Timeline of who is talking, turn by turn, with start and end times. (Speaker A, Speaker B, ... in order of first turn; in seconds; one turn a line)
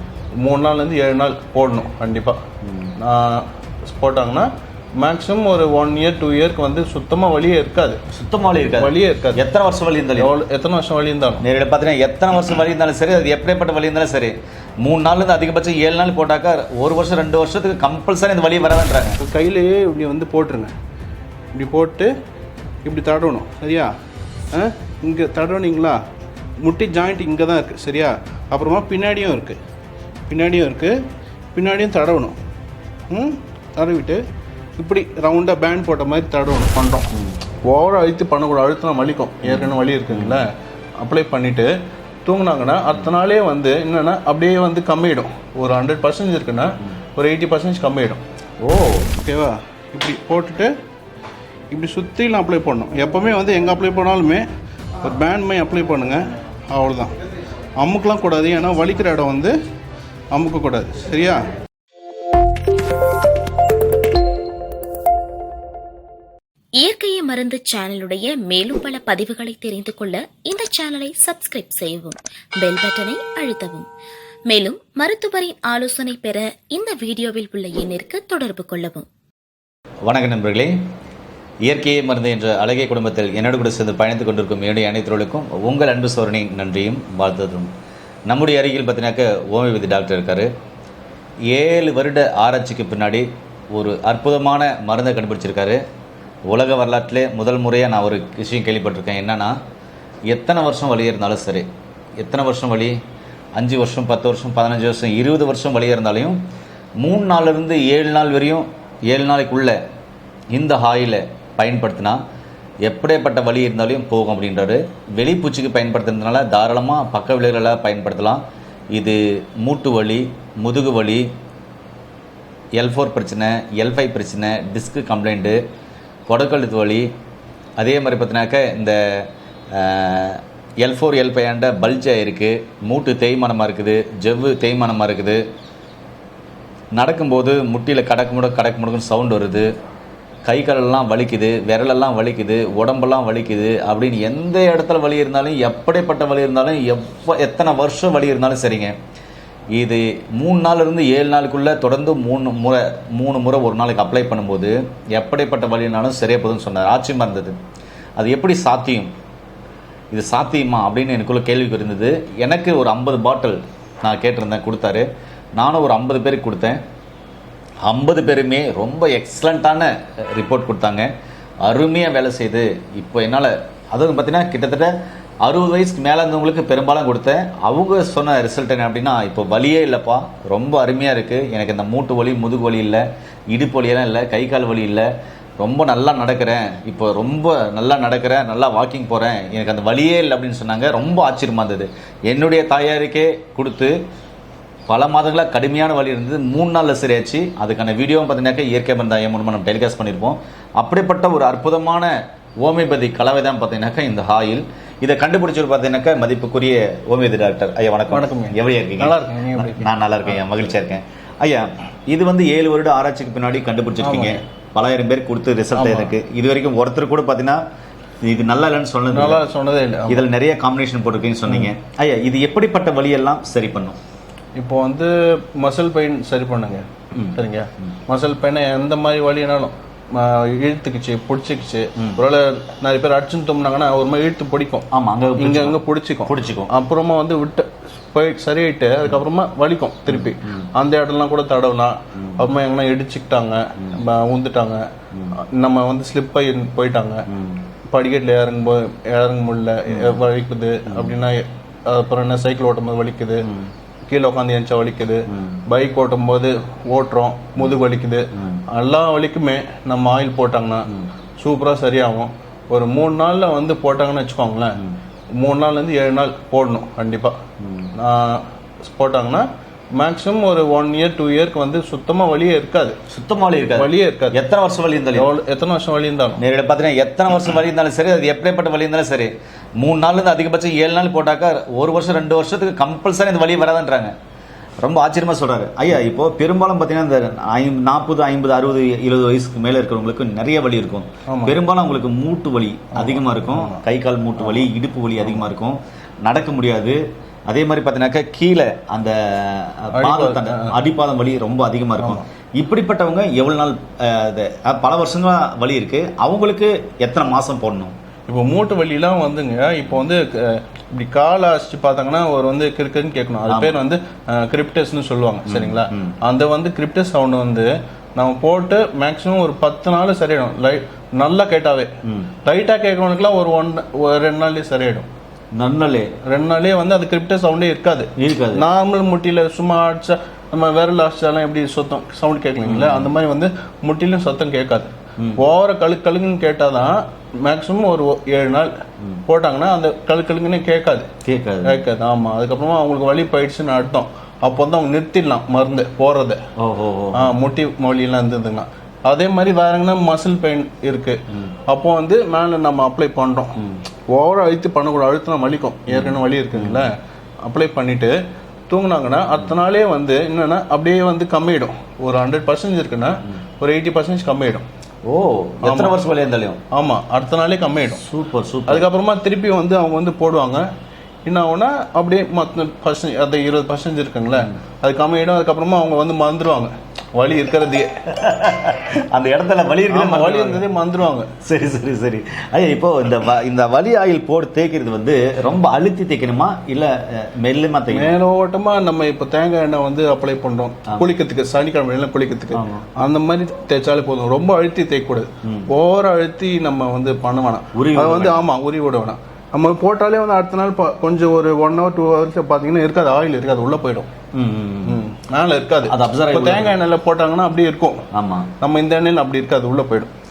Speaker A: 0.4-2.4
Speaker B: 2.6-2.9
Speaker A: 3.0-8.0
Speaker B: 8.1-10.3
Speaker A: 8.8-9.4
Speaker A: 10.2-11.4
Speaker B: 11.4-19.2
Speaker A: 19.2-20.7
Speaker A: 21.5-22.1
Speaker A: 22.8-23.9
Speaker A: 24.5-26.0
Speaker A: 26.6-29.6
Speaker A: 30.3-31.0
Speaker A: 31.5-32.4
Speaker A: 33.1-34.2
Speaker A: 34.8-37.1
Speaker A: 37.6-40.5
Speaker B: 39.4-40.4
Speaker A: 41.0-41.7
Speaker A: 42.2-48.2
Speaker B: 48.6-49.1
Speaker A: 49.2-50.7
Speaker A: 51.7-54.4
Speaker A: 55.0-57.1
Speaker A: 57.8-59.5
Speaker A: 60.3-61.4
Speaker C: 66.8-73.9
Speaker C: 74.5-79.0
Speaker B: 80.0-80.8
Speaker B: 81.6-87.7
Speaker B: 88.3-90.5
Speaker B: 91.5-95.8
Speaker B: 96.5-99.5
Speaker B: 100.3-103.0
Speaker B: 103.5-106.4
Speaker B: 107.0-109.8
Speaker B: 110.5-112.2
Speaker B: 112.8-118.4
Speaker B: 118.9-121.3
Speaker B: 122.7-125.6
Speaker B: 126.3-127.1
Speaker B: 127.8-135.4
Speaker B: 136.9-139.7
Speaker B: 140.4-148.9
Speaker B: 149.7-157.6
Speaker B: 158.2-159.1
Speaker B: 160.1-166.8
Speaker B: 167.8-171.1
Speaker B: 171.6-174.9
Speaker B: 175.4-185.1
Speaker B: 185.6-193.9
Speaker B: 194.9-217.6
Speaker A: 208.1-210.6
Speaker A: 214.0-214.4
Speaker A: 215.7-216.1
Speaker B: 218.2-219.4
Speaker A: 219.1-220.2
Speaker B: 220.1-224.0
Speaker A: 224.6-234.9
Speaker B: 227.1-227.9
Speaker B: 234.9-236.7
Speaker A: 235.4-247.3
Speaker B: 240.1-240.7
Speaker B: 242.1-242.5
Speaker B: 247.3-247.6
Speaker A: 247.9-253.5
Speaker B: 249.9-250.2
Speaker B: 250.9-251.1
Speaker B: 253.4-253.7
Speaker A: 254.1-264.8
Speaker B: 255.3-255.6
Speaker B: 258.3-258.6
Speaker A: 265.4-267.4
Speaker B: 267.6-267.9
Speaker A: 267.9-273.0
Speaker B: 273.1-275.3
Speaker A: 273.8-274.4
Speaker A: 275.1-276.4
Speaker B: 276.4-284.1
Speaker B: 284.8-307.9
Speaker A: 291.3-291.6
Speaker A: 292.9-293.8
Speaker A: 299.9-300.7
Speaker A: 308.3-321.9
Speaker B: 313.5-313.8
Speaker B: 315.4-316.1
Speaker B: 322.0-322.3
Speaker A: 322.4-325.1
Speaker B: 325.5-326.1
Speaker A: 326.3-338.7
Speaker B: 328.2-328.6
Speaker B: 332.6-333.1
Speaker B: 335.2-335.4
Speaker A: 339.3-341.1
Speaker B: 341.2-341.8
Speaker A: 341.6-346.4
Speaker B: 346.6-347.3
Speaker A: 347.1-353.6
Speaker A: 354.1-358.1
Speaker B: 355.9-356.9
Speaker A: 358.7-364.7
Speaker B: 365.0-366.6
Speaker A: 365.6-365.9
Speaker A: 366.7-368.0
Speaker B: 367.9-368.9
Speaker A: 368.7-370.7
Speaker A: 371.2-377.9
Speaker B: 378.1-380.7
Speaker A: 379.9-381.3
Speaker B: 381.4-388.1
Speaker A: 387.9-404.1
Speaker B: 392.5-392.9
Speaker B: 395.4-395.7
Speaker B: 397.7-398.4
Speaker B: 404.3-405.0
Speaker A: 404.9-408.0
Speaker B: 405.8-406.8
Speaker B: 408.1-408.5
Speaker A: 408.6-410.1